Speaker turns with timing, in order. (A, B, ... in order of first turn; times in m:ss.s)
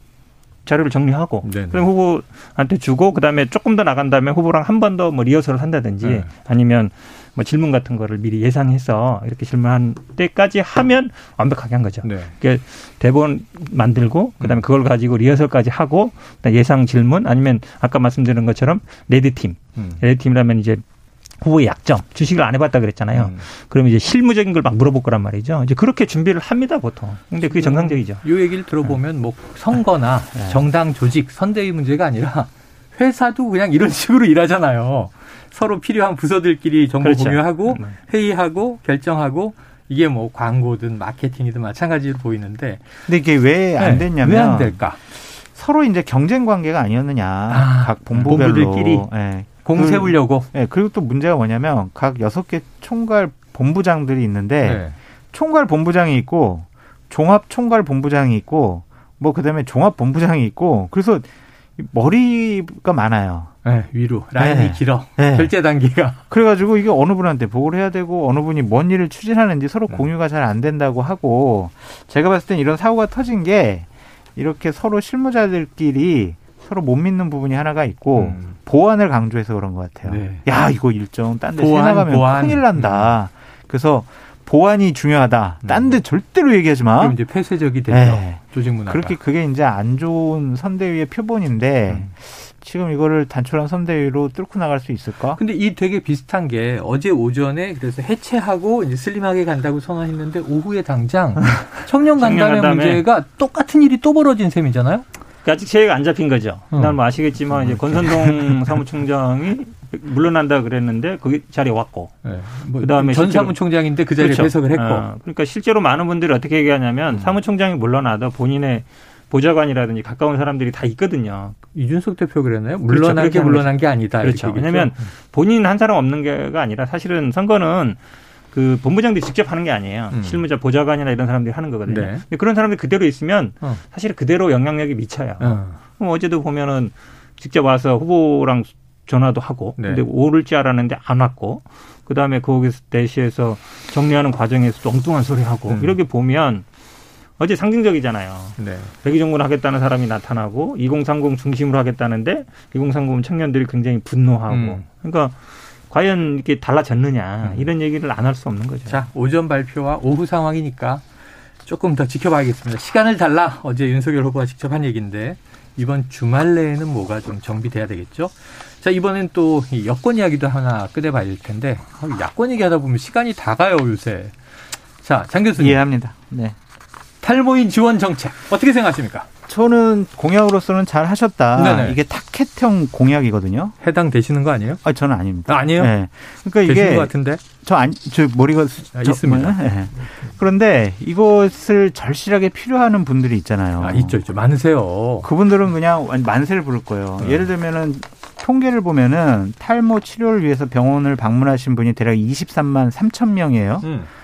0:00.6-0:20.8 A
0:01.4-0:01.9 B
0:06.0-0:06.3 B
0:12.0-0:12.3 B
0:19.8-0:20.0 B
0:21.4-0:28.2 A
0:23.1-0:23.4 B
0:27.4-0:42.9 B
0:37.0-0:38.0 A
0:43.1-1:03.5 C
0:43.8-0:45.0 B
0:47.5-0:49.1 B
0:49.6-0:50.5 B
0:54.6-0:54.9 B
1:03.6-1:06.2 B
1:04.4-1:05.5 C
1:06.3-1:27.2 C
1:18.2-1:18.6 B
1:20.0-1:20.4 B
1:21.6-1:23.1 B
1:25.6-1:26.0 B
1:27.0-1:29.2 B
1:27.9-1:35.4 C
1:35.4-1:45.0 B
1:42.2-1:43.0 A
1:45.4-1:52.2 A
1:47.5-1:48.5 B
1:52.2-1:55.0 B
1:52.8-1:53.6 A
1:54.2-2:01.6 A
1:57.1-1:57.4 B
2:01.7-2:05.1 B
2:02.8-2:08.0 A
2:08.5-2:26.6 A
2:10.1-2:10.4 B
2:11.9-2:12.2 B
2:15.4-2:15.8 B
2:19.8-2:20.0 B
2:25.7-2:25.9 B
2:27.4-2:35.4 A
2:28.6-2:28.9 B
2:34.5-2:34.8 B
2:35.9-2:39.0 A
2:37.4-2:37.7 B
2:38.9-2:41.0 B
2:41.6-2:54.4 B
2:55.0-2:55.8 B
2:55.6-2:56.6 C
2:57.2-2:59.3 B
2:59.5-3:03.7 C
3:01.6-3:02.0 B
3:03.8-3:04.8 B
3:04.8-3:14.2 C
3:05.4-3:05.9 B
3:06.6-3:07.4 B
3:08.9-3:10.3 B
3:13.8-3:15.3 B
3:15.2-3:23.8 C
3:17.2-3:17.5 B
3:23.8-3:24.1 B